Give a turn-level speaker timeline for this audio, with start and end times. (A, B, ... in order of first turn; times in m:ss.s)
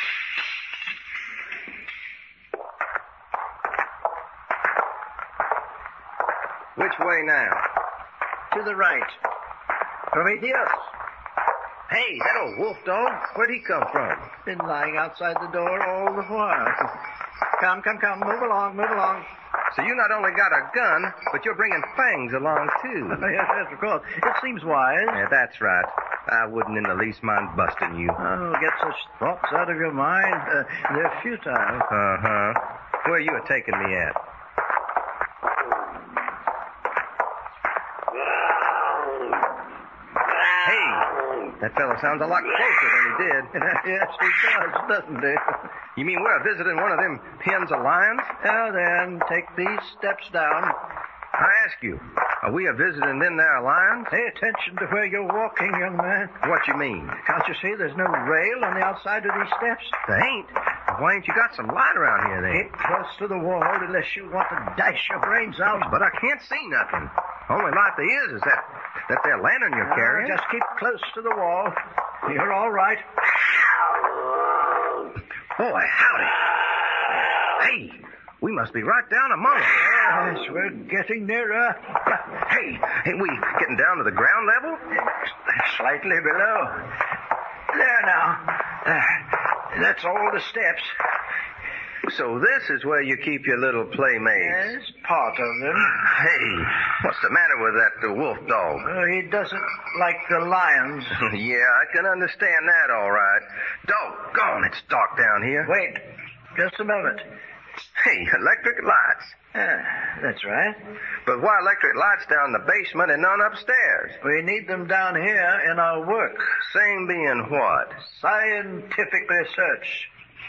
0:06.8-0:07.7 A
0:08.5-0:09.2 B
0:10.1-0:10.8 B
0:11.9-0:14.3 A
0:14.4-0:16.9 B
0:17.6-0:19.3 B
0:19.7-0:23.2 A
0:23.1-0:25.2 B
0:25.1-0:28.2 A
0:28.2-0:31.9 B
0:31.9-0:34.2 A
0:40.6-0:43.5 A
0:43.5-0:45.7 B
0:46.0-0:48.3 A
0:48.4-0:50.8 B
0:51.4-0:54.1 A
0:54.1-0:56.4 B
0:56.4-0:57.2 A
0:57.2-1:00.0 B
1:00.1-1:02.7 A
1:02.5-1:05.9 B
1:05.8-1:10.4 A
1:09.8-1:13.0 B
1:15.6-1:16.4 A
1:17.6-1:20.0 A
1:19.8-1:22.3 B
1:22.4-1:24.8 A
1:25.0-1:26.9 B
1:27.7-1:30.9 B
1:32.1-1:34.7 A
1:34.4-1:36.0 B
1:36.0-1:38.9 A
1:38.8-1:41.2 B
1:41.2-1:45.7 A
1:45.6-1:47.3 B
1:48.0-1:49.4 A
1:49.5-1:50.8 B
1:51.2-1:54.2 A
1:54.2-1:56.6 B
1:56.7-1:58.0 A
1:58.0-2:00.1 B